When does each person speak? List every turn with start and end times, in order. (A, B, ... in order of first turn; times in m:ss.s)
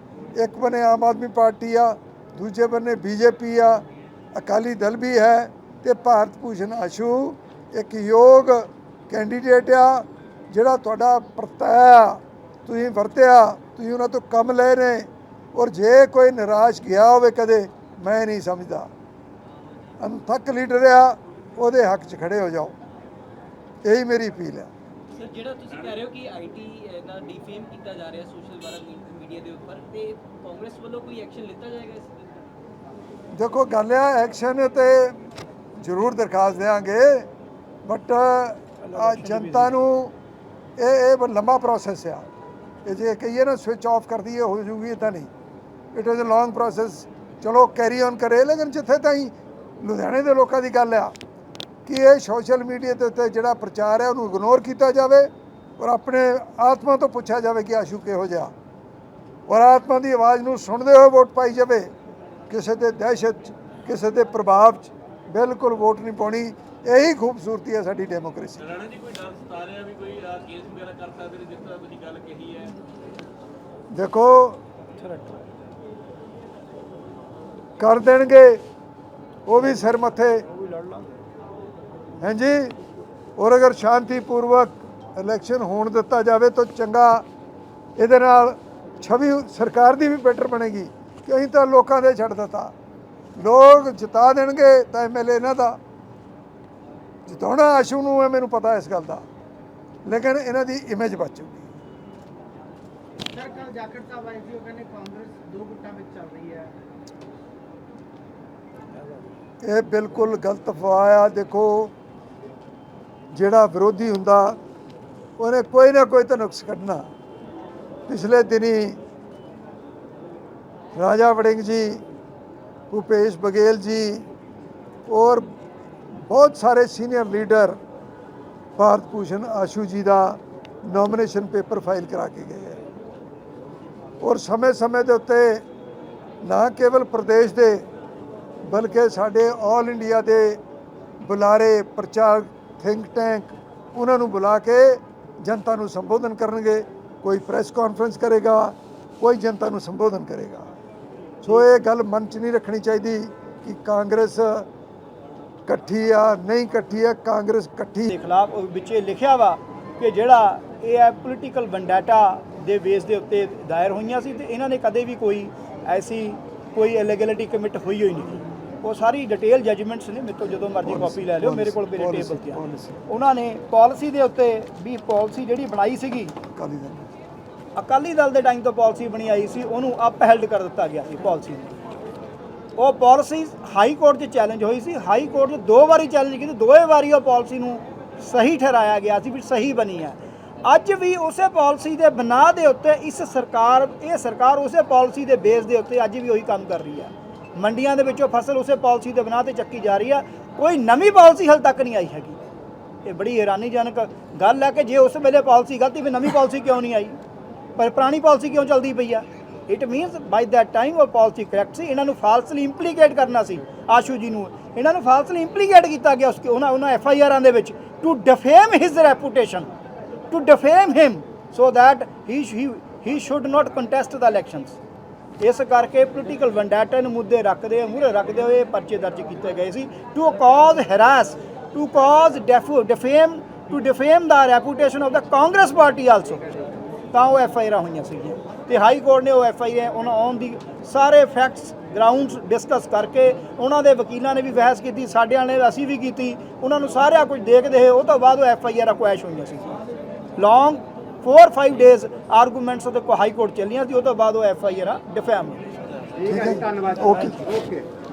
0:00.4-0:18.9 A
0:20.0-0:22.8 A
0:23.8-0:24.7 A
0:25.1-0:32.5 B
0:25.7-0:26.1 C
0:33.3-0:35.2 A
0:35.8-0:37.3 A
0:37.8-0:40.1 A
0:38.8-0:39.8 D
0:40.8-0:42.3 A
0:42.8-0:45.3 A
0:45.9-0:51.2 A
0:51.9-0:58.5 A
0:59.5-1:01.9 A
1:02.5-1:08.7 A
1:08.6-1:12.7 C
1:13.9-1:14.6 A
1:15.0-1:15.4 D
1:17.8-1:18.6 A
1:19.5-1:20.4 A
1:20.6-1:21.1 D
1:22.2-1:22.8 A
1:23.4-1:27.2 A
1:28.0-1:32.7 A
1:33.4-1:35.8 A
1:37.3-1:39.3 A
1:40.1-1:41.7 A
1:43.3-1:46.8 E
1:49.6-1:51.9 A
1:53.3-1:54.6 A
1:55.4-1:57.1 A
1:58.1-1:59.0 A
2:01.0-2:02.0 A
2:02.9-2:04.3 A
2:05.1-2:05.5 A
2:06.2-2:07.8 A
2:08.8-2:12.8 A
2:14.2-2:15.6 A
2:16.4-2:17.8 A
2:18.6-2:20.6 A
2:21.2-2:30.8 A
2:31.4-2:34.7 A
2:35.7-2:38.1 A
2:38.1-2:56.4 D
2:50.8-2:53.0 A
2:56.5-2:57.1 A
2:57.8-3:01.7 D
3:02.8-3:22.4 D
3:23.0-3:27.2 D
3:27.8-3:39.7 D
3:40.3-3:44.8 D
3:45.4-3:56.5 D
3:57.1-4:09.8 D
4:10.4-4:15.8 D
4:16.2-4:17.6 A
4:16.3-4:17.0 E
4:17.6-4:17.8 E